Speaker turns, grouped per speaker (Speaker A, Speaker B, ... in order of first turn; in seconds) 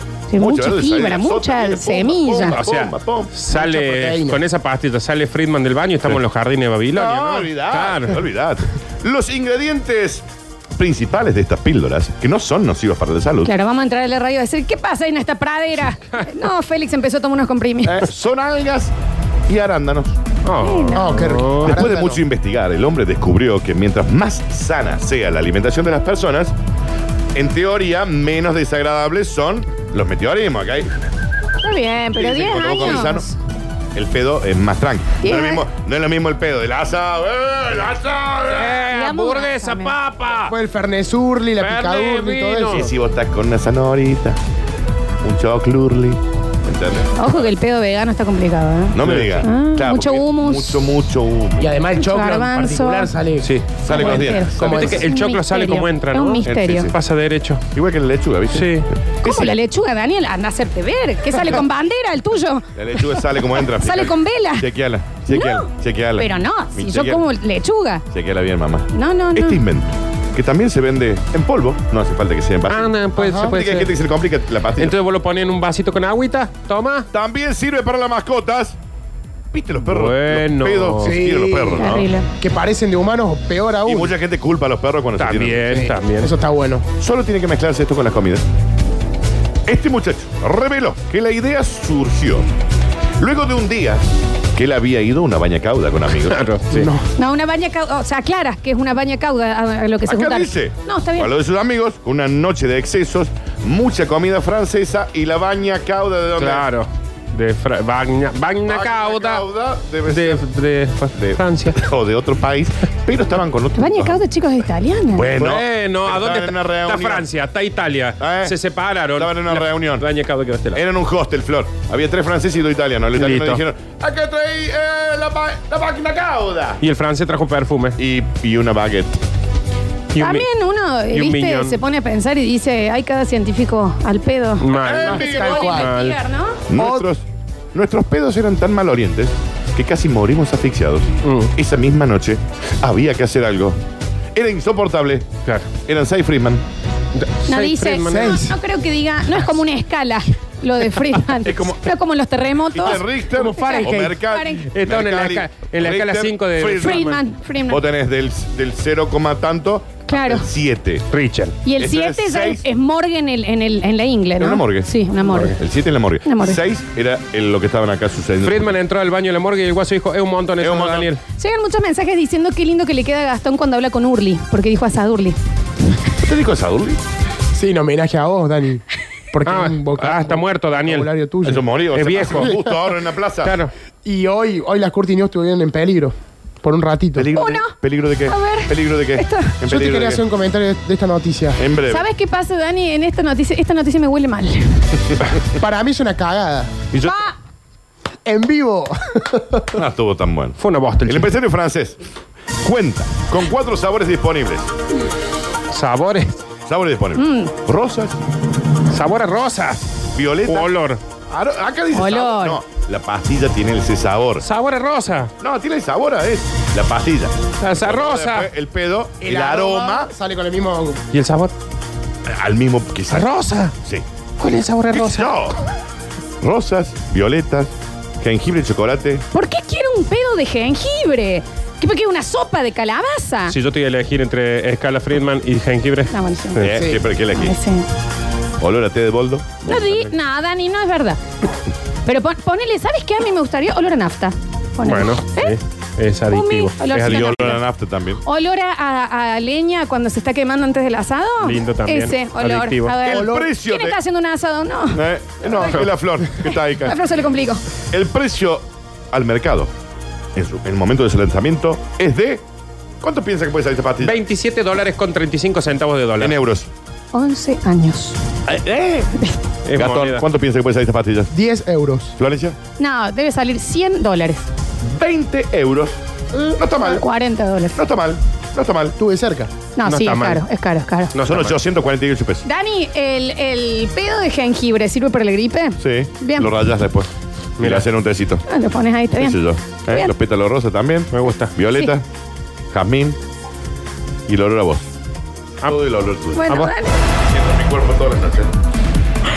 Speaker A: 0.3-2.6, 13.4-18.1, 20.6-21.3, 31.6-33.3, 35.2-35.6, 38.8-40.0, 47.2-50.9, 52.0-53.1, 53.8-56.9, 59.2-64.7, 65.3-68.0, 68.9-69.6, 81.8-82.3, 97.2-101.3, 113.8-115.3, 130.2-136.6, 147.5-154.7, 156.8-157.8, 160.1-160.5, 161.7-165.6, 166.2-166.6, 171.4-175.4, 187.3-187.8, 188.3-189.6, 191.8-195.0, 197.0-197.3, 207.2-207.5, 211.9-212.6, 229.3-233.6, 236.1-236.7, 237.3-237.9, 239.7-241.2, 242.1-245.6, 246.3-247.6, 248.2-255.0, 256.8-257.6, 267.1-268.2, 272.8-274.4, 276.8-277.8, 279.8-281.1, 282.4-286.5, 288.5-290.1, 296.4-297.0
Speaker B: 0.4-3.3, 6.9-13.5, 17.8-18.9, 19.5-20.2, 21.6-26.6, 27.4-30.9, 32.2-33.3, 33.9-38.8, 42.7-44.4, 45.2-47.5, 48.9-51.8, 53.8-55.1, 56.4-57.0, 57.7-59.6, 62.8-67.3, 68.1-75.0, 77.1-78.8, 79.5-82.1, 83.9-85.8, 87.0-88.4, 89.7-92.5, 93.2-94.0, 94.5-96.4, 100.1-106.7, 108.7-110.5, 111.2-114.2, 115.1-117.3, 118.2-118.6, 119.2-120.1, 120.7-126.8, 128.0-129.2, 134.8-135.8, 136.7-143.8, 144.3-145.3, 145.8-146.6, 151.4-151.9, 152.7-157.1, 157.7-161.1, 161.8-162.7, 164.4-164.9, 165.5-168.7, 170.6-171.1, 176.2-177.0, 181.4-183.6, 187.2-190.2, 191.6-192.1, 196.9-197.2, 199.8-202.0, 202.6-204.7, 206.7-208.2, 210.2-210.7, 211.3-214.4, 215.4-220.1, 222.3-223.3, 224.9-225.6, 226.4-229.2, 236.6-237.6, 238.6-240.2, 246.9-248.2, 253.1-254.0, 254.9-257.0, 257.9-259.7, 260.4-262.4, 263.0-264.2, 266.2-266.7, 268.5-269.2, 269.8-271.3, 272.2-272.6, 274.9-276.0, 276.6-277.1, 277.8-279.0, 281.2-282.5, 285.8-288.4, 289.1-292.1, 292.7-293.2, 294.3-294.9, 295.6-296.5, 297.1-298.5
Speaker C: 2.4-8.2, 20.5-21.9, 38.4-40.5, 41.6-42.9, 49.0-49.5, 53.4-53.8, 54.5-57.6, 58.5-58.9, 72.7-73.9, 74.8-77.1, 79.8-81.2, 85.2-86.3, 96.3-96.9, 106.4-109.4, 110.1-111.8, 115.3-120.8, 123.2-123.6, 126.8-128.0, 130.1-130.5, 131.1-131.8, 134.6-136.2, 141.2-141.5, 147.2-148.4, 153.3-157.2, 161.1-161.6, 165.3-165.6, 168.4-171.2, 179.4-181.1, 181.9-182.7, 183.4-183.7, 200.6-201.3, 205.7-206.4, 208.9-209.8, 210.4-211.0, 214.4-215.3, 217.6-218.5, 221.1-221.5, 223.1-223.7, 224.4-225.3, 233.5-236.9, 244.9-247.6, 251.4-253.0, 264.0-266.4, 269.6-270.2, 279.9-280.4, 281.1-281.6, 287.6-287.9, 291.1-291.6, 296.5-296.8
Speaker D: 3.5-4.4, 20.9-22.2, 40.5-42.9, 51.6-55.1, 73.2-73.5, 81.0-84.2, 85.7-86.9, 96.7-97.0, 135.0-135.9, 136.8-137.1, 148.1-148.6, 177.5-181.6, 182.4-182.7, 184.1-187.3, 189.7-191.6, 195.5-196.8, 198.2-199.8, 219.2-221.0, 253.1-253.5, 271.3-272.1, 279.0-279.5